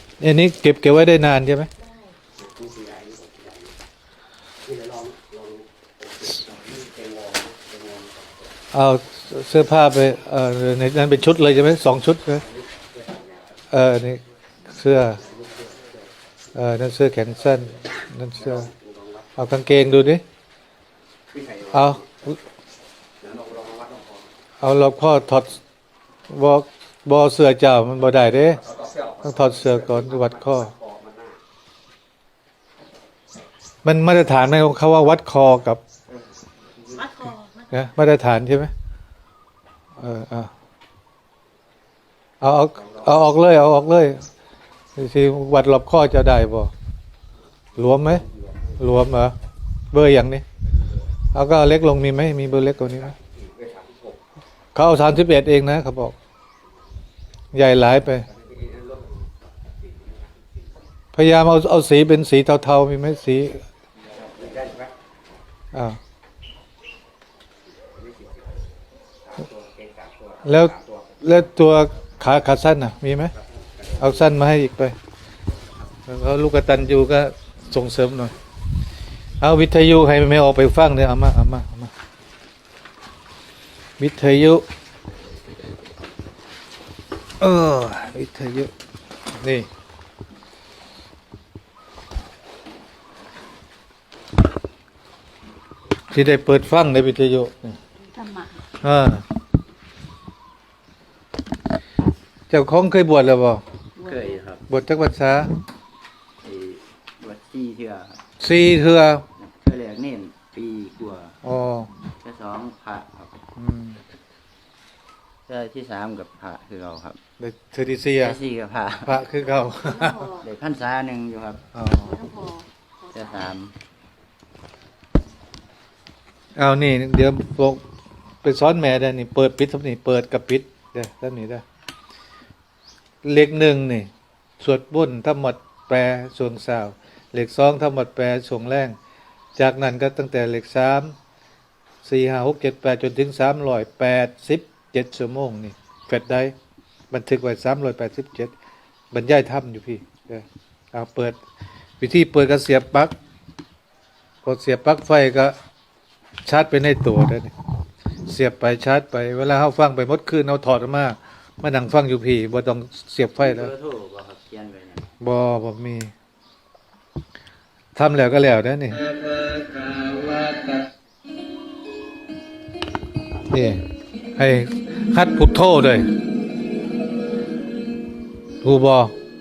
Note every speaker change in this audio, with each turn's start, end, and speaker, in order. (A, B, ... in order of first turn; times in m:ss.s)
0:00.2-0:01.7 A
0:02.4-0:03.7 B
0:04.6-0:08.5 B
0:08.7-0:12.5 A
0:12.5-0:13.6 B
0:13.7-0:15.2 A
0:15.2-0:16.1 B
0:16.5-0:18.7 A
0:18.4-0:19.3 B
0:19.4-0:20.2 A
0:21.3-0:22.0 B
0:21.7-0:22.4 A
0:23.2-0:24.3 B
0:24.6-0:25.6 A
0:26.3-0:28.7 A
0:28.7-0:31.4 B
0:29.2-0:30.7 A
0:33.8-0:35.8 A
0:36.9-0:37.2 B
0:37.6-0:38.7 A
0:40.0-0:40.5 A
0:42.4-0:44.3 A
0:45.0-0:46.7 A
0:47.8-0:48.2 A
0:48.8-0:49.4 A
0:49.9-0:50.4 A
0:51.3-0:53.2 A
0:53.1-0:54.2 B
0:54.8-0:56.2 A
0:57.5-0:58.3 A
0:58.3-1:00.5 B
1:01.2-1:03.6 A
1:04.0-1:04.9 B
1:05.7-1:06.0 A
1:08.0-1:08.6 B
1:09.3-1:11.2 B
1:10.4-1:13.4 A
1:13.6-1:14.1 B
1:14.0-1:15.0 A
1:16.1-1:18.4 A
1:19.4-1:21.9 A
1:24.0-1:24.7 A
1:27.4-1:28.7 A
1:29.3-1:29.7 A
1:36.1-1:37.8 A
1:38.1-1:38.6 C
1:38.8-1:39.3 A
1:42.5-1:43.6 A
1:44.0-1:44.4 C
1:44.0-1:44.6 D
1:44.7-1:45.6 A
1:46.4-1:48.2 D
1:48.4-1:49.3 A
1:49.4-1:51.3 D
1:51.4-1:51.9 A
1:52.2-1:53.3 D
1:53.6-1:54.0 A
1:55.5-1:57.2 D
1:57.4-1:58.4 A
1:58.2-1:59.2 D
1:59.0-2:00.3 A
1:59.7-2:00.5 C
2:00.4-2:01.6 D
2:01.7-2:02.2 A
2:02.0-2:03.5 C
2:03.2-2:03.7 D
2:06.6-2:07.9 A
2:08.4-2:11.6 A
2:13.2-2:19.0 A
2:19.6-2:21.2 A
2:22.0-2:26.6 A
2:27.1-2:28.5 A
2:29.1-2:31.4 A
2:32.0-2:33.2 A
2:34.4-2:35.6 A
2:36.4-2:37.5 A
2:38.3-2:43.7 A
2:43.4-2:45.1 D
2:45.2-2:46.1 A
2:48.0-2:49.1 A
2:53.5-2:53.8 A
2:54.4-2:56.1 A
2:58.6-2:59.2 A